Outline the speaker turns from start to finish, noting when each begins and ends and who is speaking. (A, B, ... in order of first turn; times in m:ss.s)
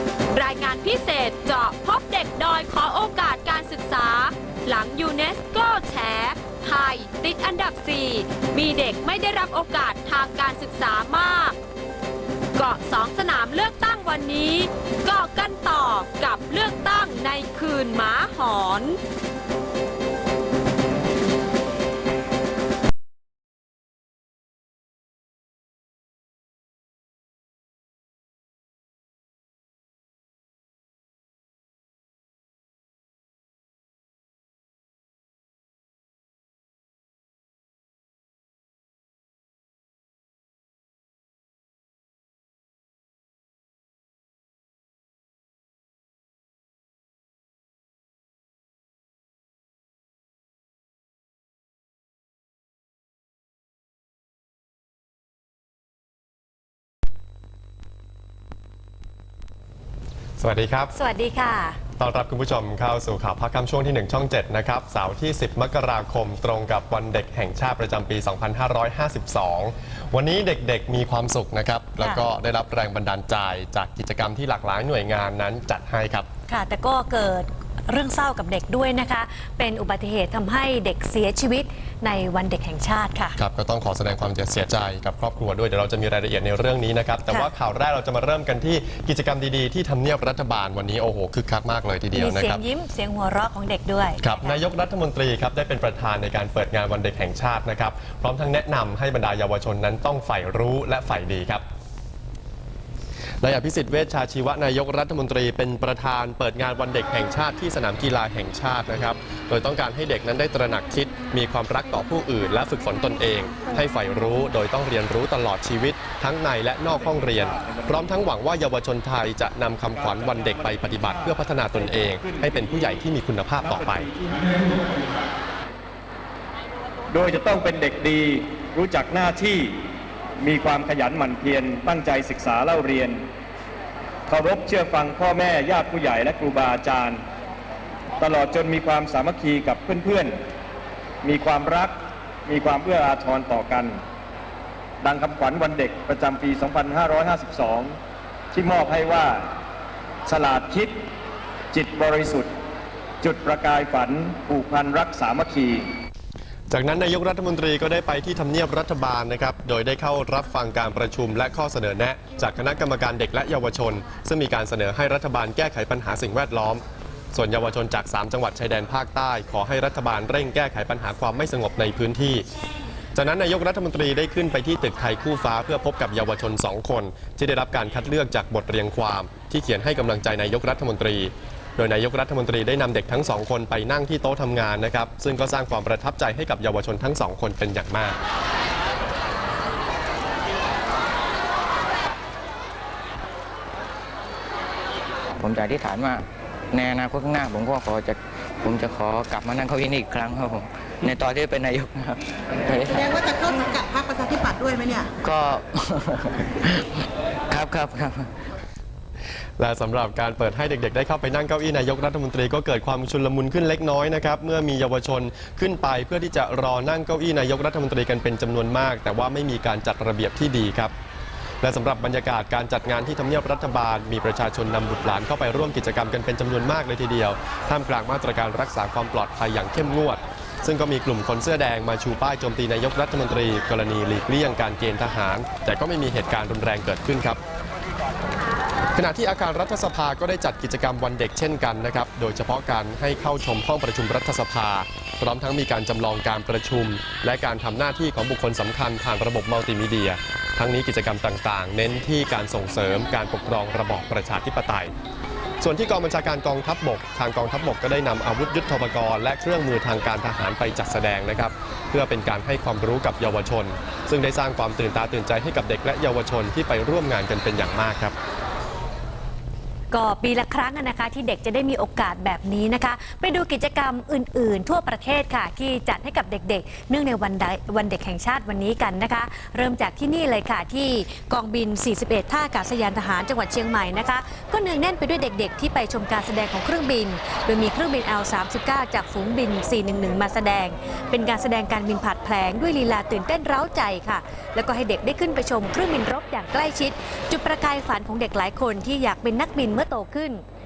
0:00.3-0:11.6 A
0:12.6-0:19.0 A
1:00.4-1:00.9 B
1:01.0-1:01.8 C
1:02.0-1:16.3 B
1:16.5-1:23.4 C
1:23.4-1:32.6 B
1:32.1-1:34.6 C
1:34.2-1:41.6 B
1:43.4-2:04.1 B
1:57.3-1:58.0 D
2:00.0-2:01.3 D
2:03.6-2:04.8 D
2:07.1-2:09.7 D
2:10.4-2:13.2 D
2:14.3-2:17.2 D
2:18.2-2:20.4 D
2:21.2-2:24.0 D
2:25.0-2:28.0 D
2:28.5-2:29.4 D
2:30.3-2:31.0 D
2:31.7-2:32.5 D
2:33.2-2:35.9 D
2:36.7-2:46.8 B
2:47.3-2:52.4 B
2:53.2-3:08.2 B
3:15.4-3:18.2 E
3:18.8-3:22.2 E
3:22.9-3:25.1 F
3:25.2-3:26.6 E
3:27.5-3:28.2 E
3:29.6-3:40.9 B
3:41.6-3:57.4 B
3:59.0-4:14.9 B
4:15.6-4:28.2 B
4:29.9-5:00.4 C